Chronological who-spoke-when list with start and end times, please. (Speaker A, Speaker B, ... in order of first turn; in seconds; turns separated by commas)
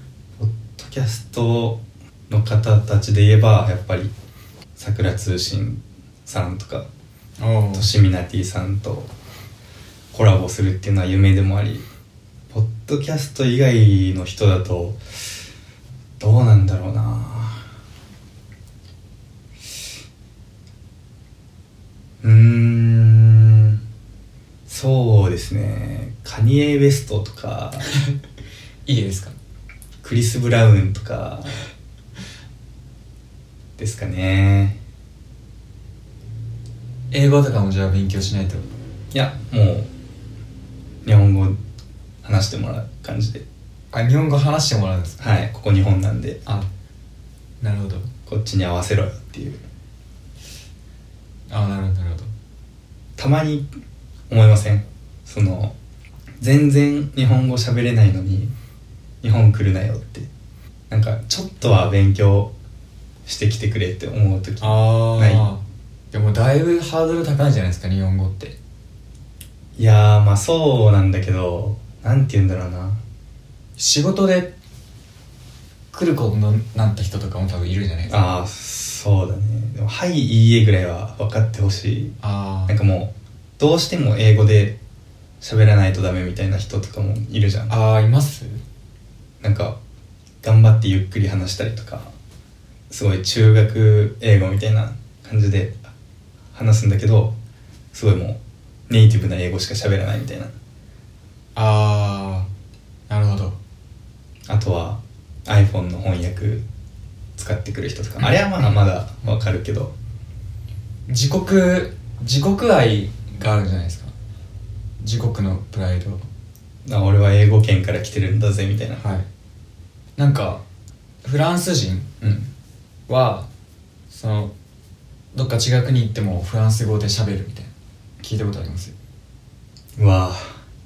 Speaker A: 0.4-4.1, Speaker A: 4.8-6.9, Speaker B: 7.4-7.9, Speaker A: 7.7-9.1, Speaker A: 10.1-11.9, Speaker A: 12.5-15.0, Speaker A: 16.2-17.6, Speaker A: 22.2-23.8, Speaker A: 24.7-27.9, Speaker B: 28.9-29.4, Speaker A: 30.0-31.6, Speaker A: 33.8-34.8, Speaker B: 37.1-38.7, Speaker A: 39.1-39.9, Speaker A: 41.0-41.6, Speaker A: 42.2-43.4, Speaker B: 43.9-45.2, Speaker A: 45.2-46.4, Speaker B: 47.6-48.1, Speaker A: 48.3-49.6, Speaker B: 51.5-52.3, Speaker A: 53.2-53.7, Speaker A: 54.3-55.7, Speaker A: 56.4-58.5, Speaker A: 59.2-60.3, Speaker A: 60.9-62.5, Speaker A: 63.3-65.5, Speaker B: 64.6-68.6, Speaker A: 69.8-73.0, Speaker B: 73.8-74.5, Speaker B: 75.9-78.2, Speaker A: 78.1-82.2, Speaker B: 82.2-82.8, Speaker A: 82.7-84.8, Speaker A: 85.4-87.7, Speaker B: 87.7-88.6, Speaker A: 89.4-89.8, Speaker A: 90.4-92.1, Speaker A: 92.9-95.9, Speaker A: 96.5-97.4, Speaker A: 97.9-100.5, Speaker B: 101.6-102.5, Speaker B: 103.1-103.6, Speaker A: 104.5-106.6, Speaker A: 107.4-109.9, Speaker B: 111.1-114.1, Speaker B: 115.0-116.2, Speaker A: 116.8-119.0, Speaker B: 119.0-119.3, Speaker B: 120.2-120.6, Speaker B: 121.2-122.2, Speaker A: 122.2-122.5, Speaker B: 123.1-123.5, Speaker B: 124.1-124.5, Speaker B: 125.3-128.9, Speaker A: 130.0-130.6